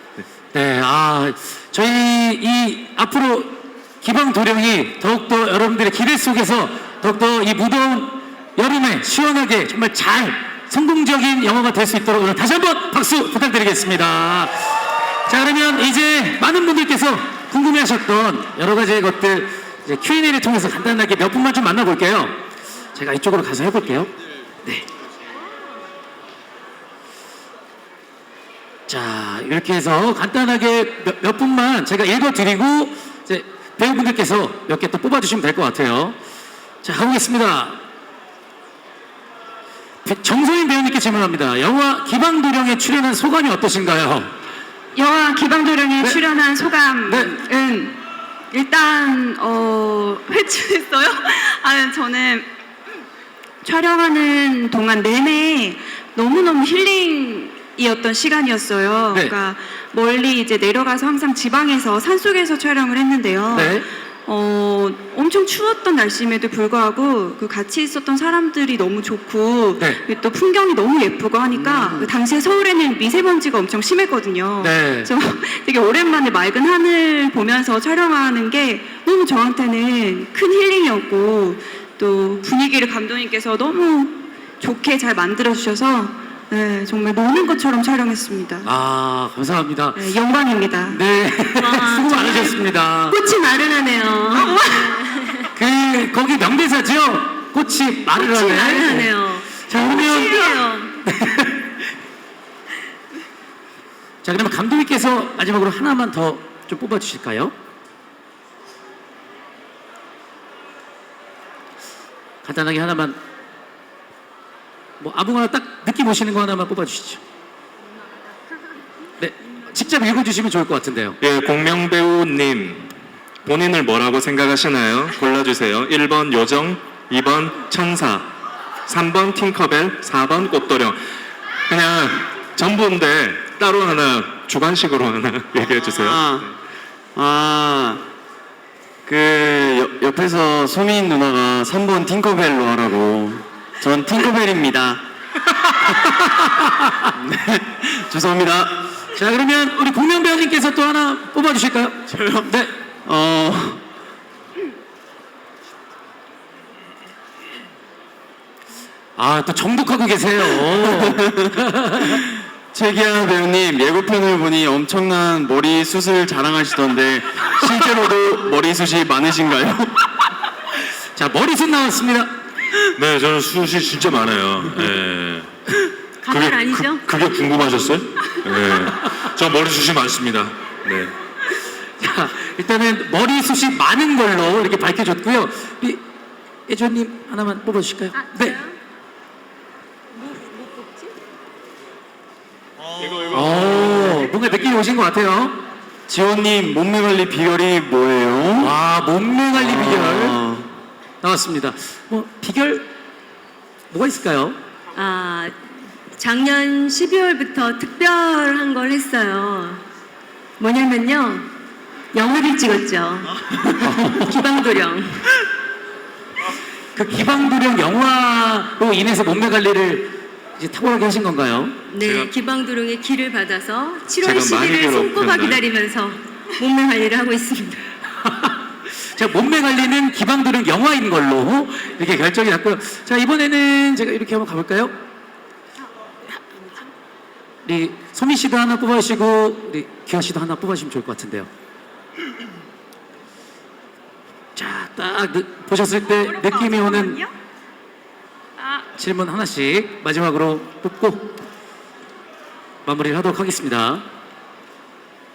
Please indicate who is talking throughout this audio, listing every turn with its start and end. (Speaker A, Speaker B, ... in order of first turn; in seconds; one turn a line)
Speaker A: 0.5-14.7
Speaker A: 15.3-22.4
Speaker A: 22.9-24.1
Speaker A: 28.9-36.2
Speaker A: 36.8-37.8
Speaker A: 40.0-44.3
Speaker B: 45.0-48.0
Speaker A: 47.1-47.3
Speaker B: 48.5-52.5
Speaker B: 53.6-88.7
Speaker A: 63.5-63.9
Speaker A: 71.5-72.1
Speaker A: 74.6-75.1
Speaker A: 88.6-90.1
Speaker B: 90.0-91.0
Speaker A: 90.9-93.2
Speaker C: 91.5-95.5
Speaker B: 94.3-95.0
Speaker A: 95.5-99.1
Speaker C: 98.2-101.0
Speaker A: 99.7-101.8
Speaker A: 104.2-107.5
Speaker A: 112.4-113.2
Speaker A: 115.0-117.2
Speaker A: 119.2-121.2
Speaker D: 121.2-122.9
Speaker D: 123.4-128.3
Speaker D: 128.9-131.0
Speaker D: 131.7-136.5
Speaker E: 135.8-136.5
Speaker E: 137.2-138.0
Speaker E: 139.1-145.0
Speaker A: 145.8-147.0
Speaker E: 147.1-148.9
Speaker A: 149.2-152.7
Speaker E: 152.1-152.5
Speaker E: 153.1-153.8
Speaker A: 159.2-162.2
Speaker E: 160.6-170.1
Speaker A: 171.2-172.3
Speaker F: 173.0-175.5
Speaker C: 176.2-177.0
Speaker F: 176.3-181.1
Speaker A: 182.0-186.0
Speaker A: 186.7-188.6
Speaker C: 188.1-188.8
Speaker C: 190.2-191.1
Speaker F: 193.1-193.9
Speaker A: 193.3-195.6
Speaker E: 196.1-198.8
Speaker A: 198.6-200.4
Speaker E: 199.5-200.7
Speaker A: 201.2-202.9
Speaker A: 203.9-204.6
Speaker C: 204.9-205.5
Speaker C: 206.2-209.8
Speaker C: 210.6-211.5
Speaker C: 212.1-215.3
Speaker A: 213.8-214.4
Speaker A: 217.0-221.8
Speaker C: 221.9-227.8
Speaker D: 222.0-222.3
Speaker D: 224.2-225.6
Speaker A: 228.2-228.6
Speaker A: 229.1-235.0
Speaker A: 237.7-241.5
Speaker A: 244.6-247.2
Speaker B: 246.1-247.3
Speaker B: 248.6-248.9
Speaker A: 249.0-251.4
Speaker A: 252.8-254.1